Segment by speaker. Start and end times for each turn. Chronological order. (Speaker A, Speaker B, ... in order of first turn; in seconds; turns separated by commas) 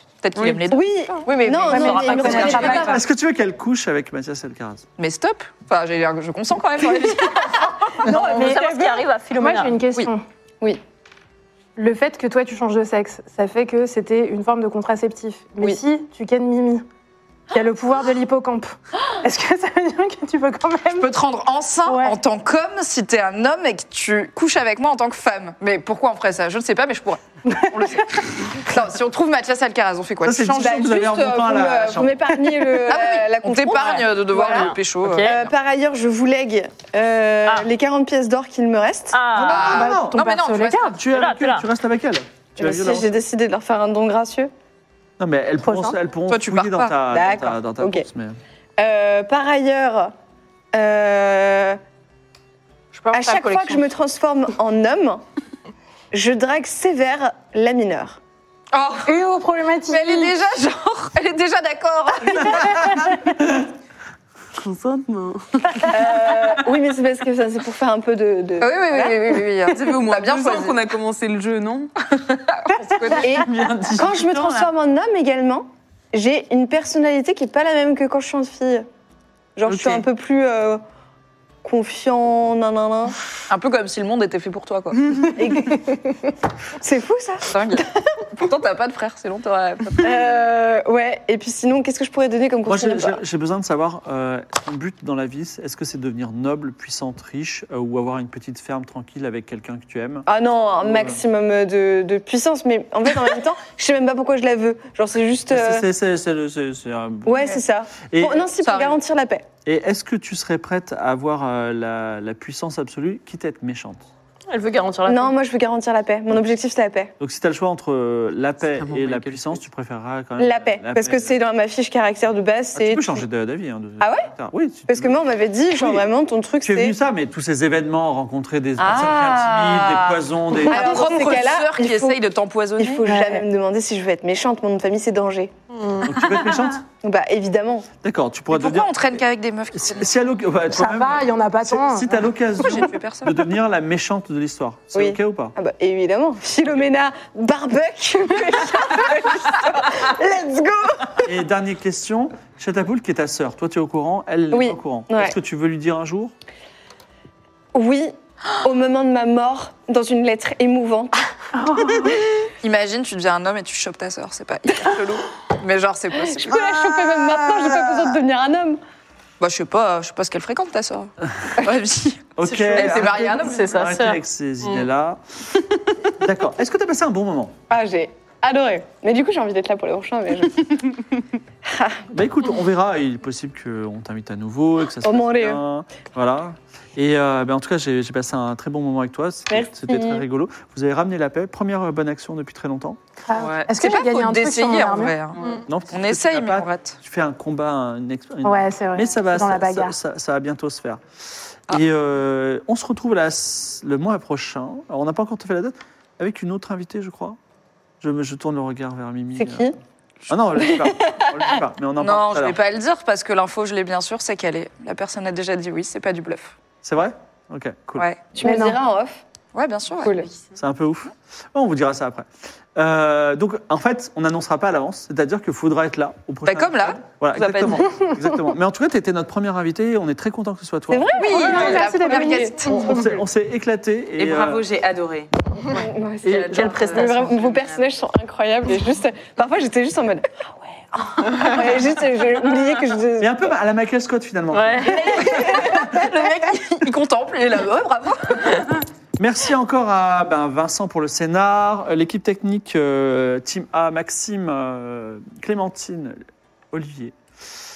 Speaker A: 0.2-3.0, Speaker B: 0.4-3.0, Speaker C: 0.7-3.0, Speaker D: 1.3-2.7, Speaker E: 2.4-2.9, Speaker F: 2.8-4.8, Speaker A: 5.0-7.8, Speaker B: 8.0-9.8, Speaker E: 8.1-10.2, Speaker E: 11.8-16.8, Speaker E: 17.5-21.2, Speaker A: 20.9-30.8, Speaker E: 21.8-22.2, Speaker E: 27.5-28.2, Speaker F: 30.2-32.1, Speaker C: 30.6-39.2, Speaker A: 32.9-35.5, Speaker B: 34.4-35.4, Speaker B: 39.1-39.6, Speaker F: 39.3-40.2, Speaker A: 39.4-41.0, Speaker E: 39.5-41.0, Speaker F: 41.0-43.1, Speaker B: 41.0-41.6, Speaker C: 42.6-44.5, Speaker F: 45.2-48.4, Speaker E: 45.6-46.0, Speaker A: 46.3-47.0, Speaker C: 47.1-48.0, Speaker C: 48.8-50.1, Speaker C: 50.7-51.8, Speaker A: 52.9-53.9, Speaker C: 53.1-55.2, Speaker C: 56.1-58.2, Speaker A: 58.7-59.2, Speaker E: 59.0-60.4, Speaker A: 59.9-62.9, Speaker D: 64.5-65.9, Speaker C: 65.8-69.3, Speaker A: 68.6-70.8, Speaker D: 69.7-72.2, Speaker A: 72.5-73.7, Speaker C: 73.2-78.8, Speaker F: 73.4-74.6, Speaker C: 79.5-80.8, Speaker A: 79.7-80.0, Speaker C: 81.6-83.2, Speaker A: 83.5-85.3, Speaker C: 85.2-88.1, Speaker A: 87.5-90.2, Speaker C: 90.0-93.2, Speaker F: 92.7-100.3, Speaker C: 100.2-105.8, Speaker F: 100.8-101.2, Speaker F: 105.5-108.5, Speaker C: 107.2-109.5, Speaker A: 108.6-109.0, Speaker F: 109.6-114.1, Speaker B: 114.5-115.3, Speaker C: 115.0-117.1, Speaker F: 117.2-121.4, Speaker D: 118.8-119.6, Speaker C: 120.4-123.2, Speaker F: 122.7-125.1, Speaker C: 124.0-124.3, Speaker C: 124.9-126.9, Speaker F: 125.7-126.1, Speaker F: 126.6-131.0, Speaker C: 128.8-132.2, Speaker A: 130.7-133.1, Speaker C: 132.8-135.5, Speaker E: 133.0-133.4, Speaker F: 136.0-136.8, Speaker C: 137.0-137.9, Speaker F: 138.0-145.5, Speaker A: 138.5-140.1, Speaker E: 140.7-142.8, Speaker A: 142.6-143.5, Speaker C: 144.9-151.3, Speaker F: 151.2-156.3, Speaker C: 154.5-155.3, Speaker C: 157.7-161.1, Speaker E: 161.5-162.2, Speaker A: 162.6-166.5, Speaker C: 166.2-168.8, Speaker F: 167.4-168.0, Speaker A: 169.4-173.8, Speaker F: 172.4-175.2, Speaker B: 172.7-174.8, Speaker F: 176.2-177.6, Speaker C: 177.7-180.9, Speaker C: 181.6-182.0, Speaker F: 182.1-193.0, Speaker C: 185.0-185.6, Speaker C: 189.5-190.2, Speaker E: 193.3-195.2, Speaker D: 193.3-193.7, Speaker A: 193.8-197.0, Speaker D: 195.3-195.6, Speaker F: 195.6-201.0, Speaker E: 198.4-200.0, Speaker F: 201.7-207.4, Speaker F: 208.0-209.7, Speaker C: 209.4-209.8, Speaker F: 210.3-212.6, Speaker C: 210.6-211.4, Speaker A: 212.0-216.5, Speaker F: 216.8-218.1, Speaker A: 218.0-218.2, Speaker C: 218.3-219.2, Speaker E: 218.4-218.8, Speaker A: 219.5-220.2, Speaker D: 220.0-220.5, Speaker C: 220.0-220.3, Speaker F: 220.5-231.2, Speaker A: 226.4-227.9, Speaker C: 230.9-232.6, Speaker A: 231.1-233.0, Speaker E: 231.3-233.1, Speaker F: 232.6-234.6, Speaker D: 234.2-237.8, Speaker C: 235.7-243.3, Speaker F: 236.2-237.1, Speaker F: 243.2-245.8, Speaker B: 244.5-245.4, Speaker C: 244.8-246.5, Speaker A: 245.0-248.7, Speaker F: 249.2-256.2, Speaker F: 256.7-257.1